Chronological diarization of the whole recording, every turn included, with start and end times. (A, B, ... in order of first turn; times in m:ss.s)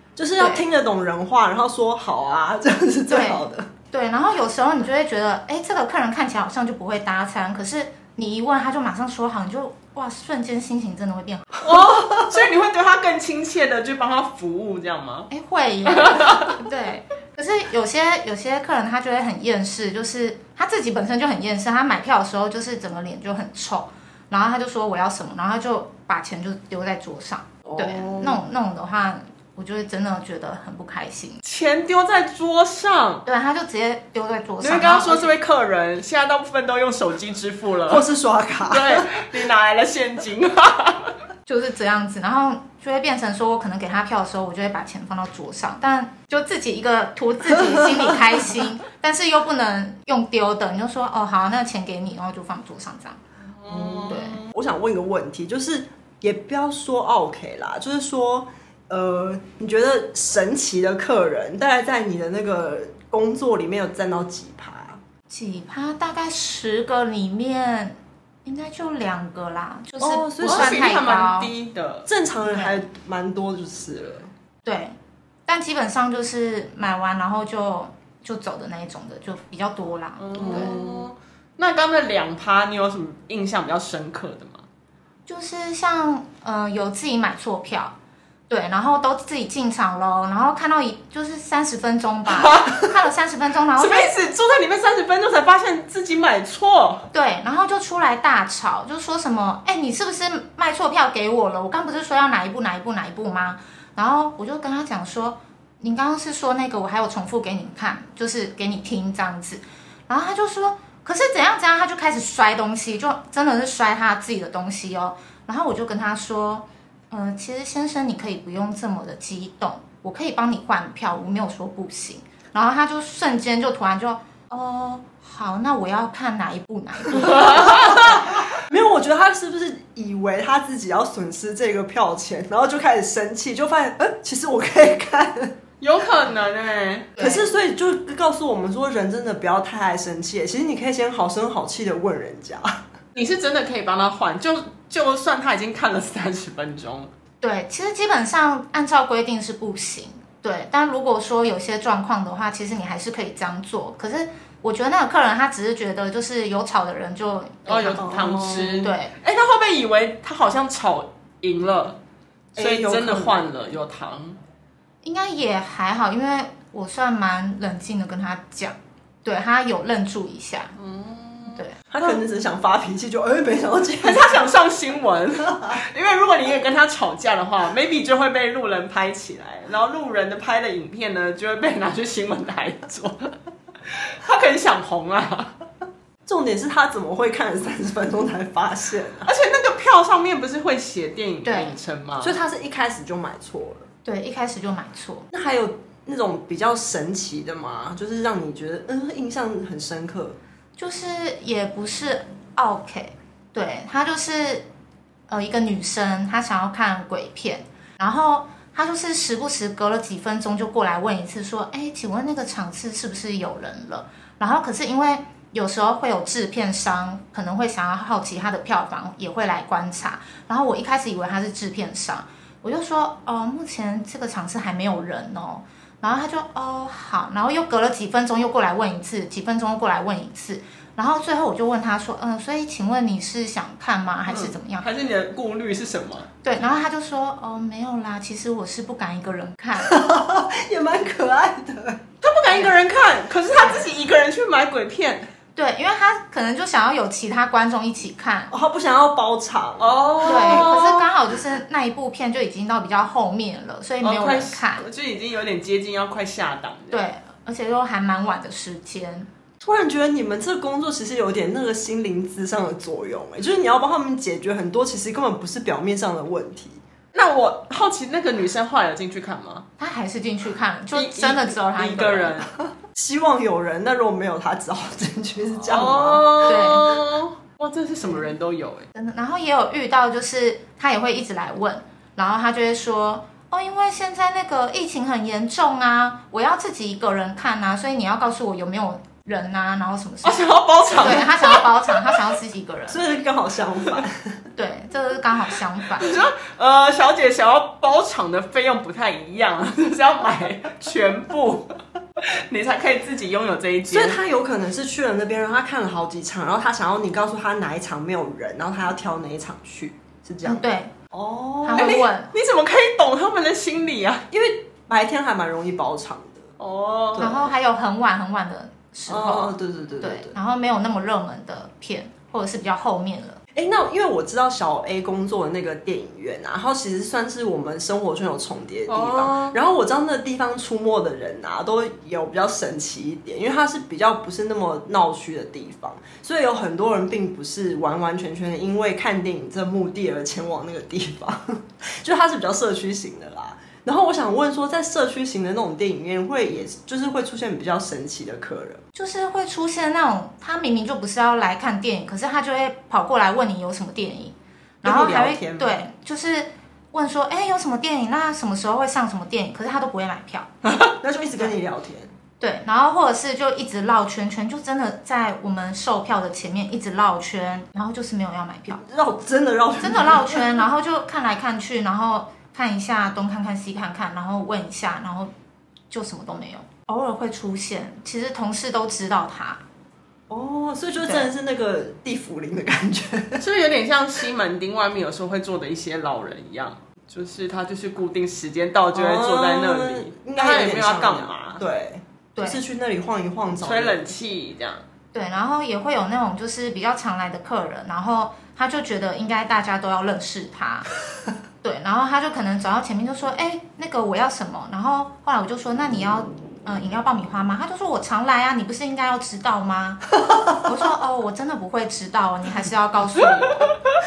0:00.2-0:03.7 A
0:03.1-0:11.7 B
0:11.6-0:15.3 C
0:11.7-0:12.4 A
0:15.3-0:31.4 B
0:15.9-0:16.6 C
0:27.8-0:28.1 C
0:31.4-0:33.2 C
0:33.2-0:35.3 B
0:34.6-0:38.0 C
0:37.9-0:39.2 A
0:38.6-0:41.1 C
0:41.5-0:53.2 B
0:53.6-0:54.3 C
0:53.7-1:05.0 A
0:54.1-0:54.4 B
1:05.3-1:11.5 B
1:10.0-1:10.8 A
1:10.4-1:12.1 C
1:12.1-1:14.3 A
1:12.4-1:12.8 B
1:14.6-1:14.9 B
1:15.5-1:20.8 B
1:20.2-1:24.6 C
1:20.4-1:20.9 A
1:25.3-1:27.9 B
1:28.5-1:34.1 B
1:32.3-1:33.0 C
1:33.8-1:37.1 C
1:37.1-2:08.4 B
2:07.2-2:07.9 C
2:07.2-2:15.6 A
2:15.8-2:17.1 C
2:17.2-2:17.5 B
2:17.2-2:22.8 A
2:23.1-2:27.1 C
2:27.4-2:39.1 B
2:37.6-2:42.0 C
2:38.0-2:38.9 A
2:42.6-2:43.6 A
2:42.6-2:44.4 C
2:45.0-2:50.8 B
2:50.8-2:52.2 C
2:51.5-2:51.8 B
2:51.9-2:54.4 A
2:54.0-3:03.3 C
2:55.5-2:55.8 A
3:03.9-3:05.6 C
3:06.2-3:09.3 A
3:09.2-3:12.4 C
3:11.4-3:11.8 B
3:12.2-3:13.9 A
3:14.0-3:15.3 B
3:15.3-3:20.4 A
3:20.8-3:24.6 B
3:25.3-3:54.9 B
3:54.3-3:56.3 C
3:56.4-4:00.0 B
3:59.8-4:02.0 A
4:02.2-4:05.3 C
4:05.6-4:08.5 B
4:08.5-4:11.0 A
4:09.8-4:11.0 C
4:10.2-4:14.9 B
4:14.0-4:17.0 C
4:16.9-4:19.3 B
4:19.6-4:26.8 A
4:27.1-4:29.7 C
4:29.8-4:32.4 B
4:30.9-4:32.5 C
4:32.8-4:36.5 A
4:35.6-4:38.9 C
4:36.4-4:37.0 B
4:38.9-4:53.1 B
4:50.2-4:52.2 C
4:52.9-4:54.4 A
4:54.6-4:56.2 B
4:56.0-5:04.2 C
5:03.9-5:12.0 A
5:10.4-5:10.9 B
5:11.6-5:12.3 B
5:11.7-5:14.2 C
5:14.3-5:16.5 A
5:16.6-5:17.4 C
5:17.1-5:17.5 A
5:17.2-5:23.4 B
5:19.1-5:20.4 A
5:23.5-5:48.8 A
5:28.9-5:29.6 C
5:48.9-6:00.5 B
5:54.8-5:55.8 A
6:01.0-6:02.1 A
6:02.4-6:08.8 B
6:08.8-6:10.6 A
6:09.8-6:15.3 B
6:15.9-6:19.6 B
6:20.3-6:23.4 A
6:21.0-6:21.3 B
6:23.4-6:31.6 C
6:28.9-6:34.1 A
6:32.4-6:32.6 B
6:33.6-6:34.8 C
6:35.1-6:40.9 B
6:41.6-6:53.7 B